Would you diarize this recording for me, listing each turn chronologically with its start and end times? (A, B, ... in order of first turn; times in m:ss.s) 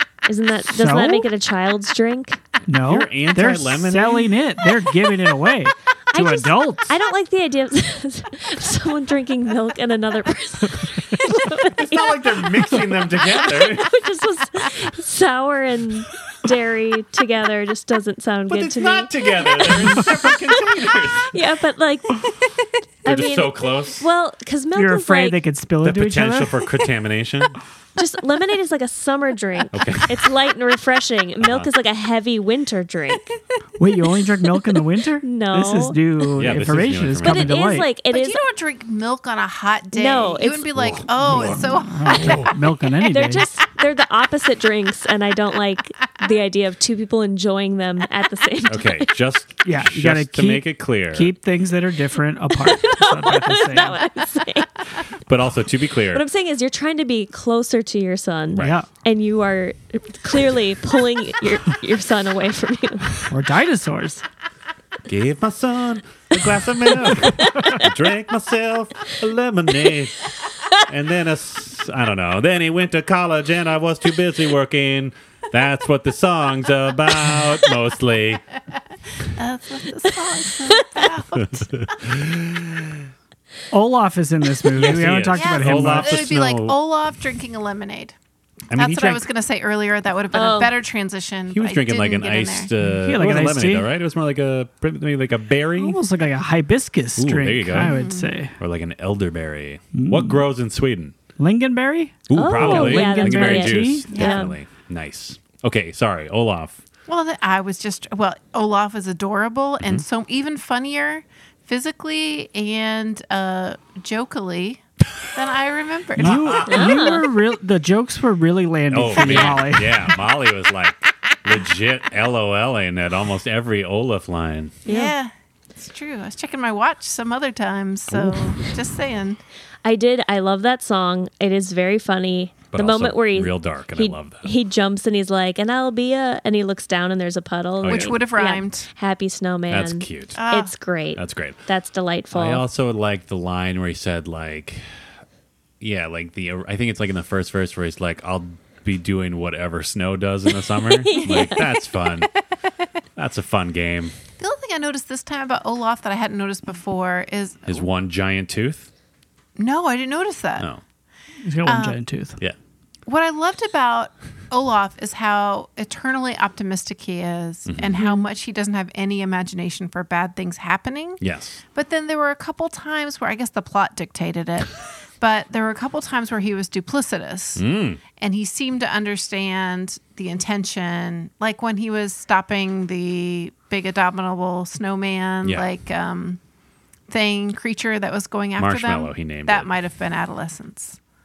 0:00.3-0:02.4 A
0:00.7-0:01.3 B
0:02.7-0:06.9 B
0:02.8-0:04.3 C
0:06.1-0:20.1 A
0:11.7-0:13.9 C
0:18.5-0:21.3 C
0:21.3-0:22.3 A
0:23.0-0:24.1 C
0:23.0-0:25.4 A
0:24.8-0:26.5 B
0:25.8-0:27.6 C
0:28.0-0:33.3 A
0:29.7-0:30.2 C
0:31.4-0:31.7 C
0:33.8-0:37.9 B
0:35.2-0:36.0 A
0:36.4-0:37.5 C
0:37.2-0:38.4 A
0:38.1-0:42.5 D
0:39.9-0:40.8 A
0:40.8-0:42.5 C
0:41.2-0:43.5 B
0:43.0-0:49.1 A
0:48.7-0:51.3 C
0:49.6-0:54.0 B
0:52.6-0:54.8 A
0:55.3-0:56.2 C
0:56.1-1:03.3 A
0:58.5-0:58.8 C
0:58.6-0:58.9 B
1:03.3-1:04.2 B
1:05.1-1:10.2 C
1:10.9-1:18.4 C
1:19.3-1:21.8 D
1:20.4-1:21.0 A
1:21.4-1:23.1 C
1:23.7-1:26.3 B
1:24.7-1:26.8 C
1:25.3-1:28.2 D
1:28.7-1:29.2 C
1:28.7-1:32.7 D
1:30.3-1:30.8 A
1:31.5-1:36.0 C
1:32.8-1:33.9 B
1:35.8-1:38.6 B
1:37.2-1:38.0 C
1:37.8-1:38.3 D
1:38.6-1:41.2 C
1:39.9-1:40.4 B
1:41.4-1:44.1 B
1:42.3-1:46.8 C
1:42.3-1:44.6 A
1:44.1-1:44.5 D
1:47.1-1:54.8 D
1:55.3-1:56.7 D
1:56.2-2:00.1 B
1:56.2-1:56.9 C
1:56.7-1:57.2 A
1:58.9-2:04.8 C
2:04.9-2:05.2 A
2:04.9-2:09.4 D
2:08.1-2:08.4 C
2:09.8-2:22.6 A
2:12.7-2:14.5 C
2:17.8-2:18.2 C
2:17.8-2:18.9 D
2:19.7-2:20.4 C
2:20.4-2:20.7 D
2:21.2-2:21.6 C
2:22.3-2:25.0 C
2:25.8-2:32.3 C
2:30.9-2:31.7 A
2:33.2-2:34.2 C
2:34.4-2:37.8 D
2:37.7-2:38.9 C
2:39.6-2:40.7 D
2:41.4-2:42.4 B
2:41.6-2:42.0 D
2:43.1-2:51.2 D
2:47.7-2:48.0 C
2:48.0-2:48.2 A
2:51.2-2:51.6 C
2:51.7-2:57.6 D
2:57.6-2:58.0 C
2:58.2-3:06.4 D
3:07.1-3:11.0 D
3:08.6-3:09.7 C